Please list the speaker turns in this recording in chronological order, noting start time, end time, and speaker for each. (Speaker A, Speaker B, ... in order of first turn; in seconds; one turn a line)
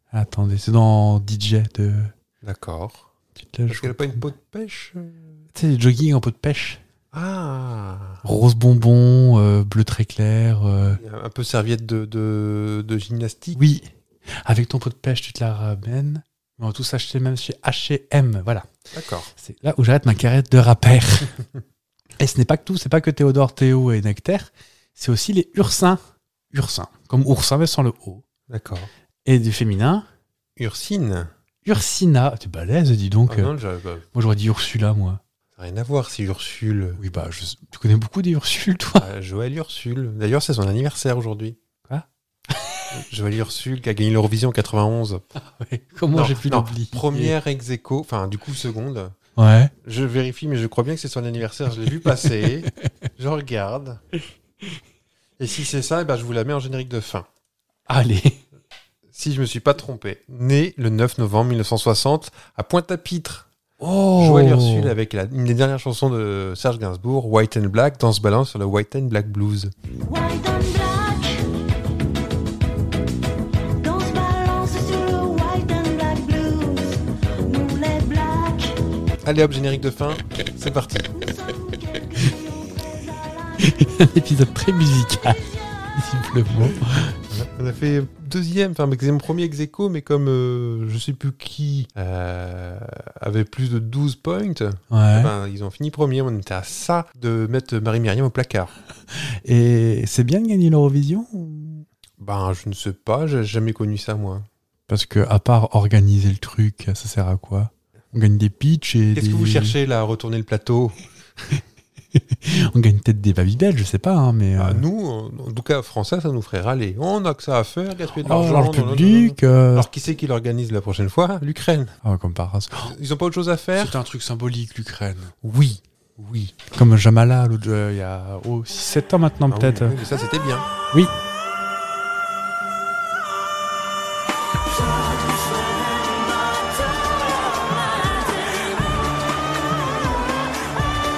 Speaker A: 0.1-2.1
Speaker B: 2.4-3.1
Speaker A: 3.4-4.3
Speaker B: 3.7-5.4
Speaker A: 5.5-6.8
Speaker B: 7.1-8.2
Speaker A: 8.2-11.0
Speaker B: 11.0-13.6
Speaker A: 13.6-13.9
Speaker A: 14.4-18.7
Speaker B: 18.9-19.3
Speaker A: 19.4-21.4
Speaker A: 22.2-26.0
Speaker A: 26.5-28.2
Speaker B: 28.5-28.9
Speaker A: 29.3-30.1
Speaker B: 30.6-31.3
Speaker A: 31.6-33.5
Speaker B: 33.3-34.1
Speaker A: 34.1-35.2
Speaker B: 35.6-37.0
Speaker A: 37.0-39.1
Speaker B: 39.0-41.6
Speaker A: 41.9-42.9
Speaker B: 42.9-45.2
Speaker A: 45.4-47.3
Speaker B: 46.1-49.1
Speaker A: 49.4-49.7
Speaker B: 49.8-54.0
Speaker B: 55.4-57.3
Speaker A: 57.9-58.4
Speaker B: 59.1-63.5
Speaker A: 63.8-64.9
Speaker B: 64.2-69.7
Speaker C: 70.0-71.5
Speaker C: 73.8-78.8
Speaker B: 79.2-81.1
Speaker C: 81.2-83.8
Speaker A: 83.6-87.2
Speaker B: 87.3-98.7
Speaker A: 94.9-95.3
Speaker A: 99.2-101.9
Speaker B: 102.2-104.5
Speaker A: 104.9-109.8
Speaker B: 109.2-111.0
Speaker A: 112.2-114.8
Speaker B: 114.6-122.0
Speaker A: 118.1-119.9
Speaker A: 122.0-122.9
Speaker B: 122.9-124.0
Speaker A: 123.8-125.3
Speaker B: 125.4-126.6
Speaker A: 126.7-130.0
Speaker B: 129.5-130.7
Speaker C: 135.0-138.8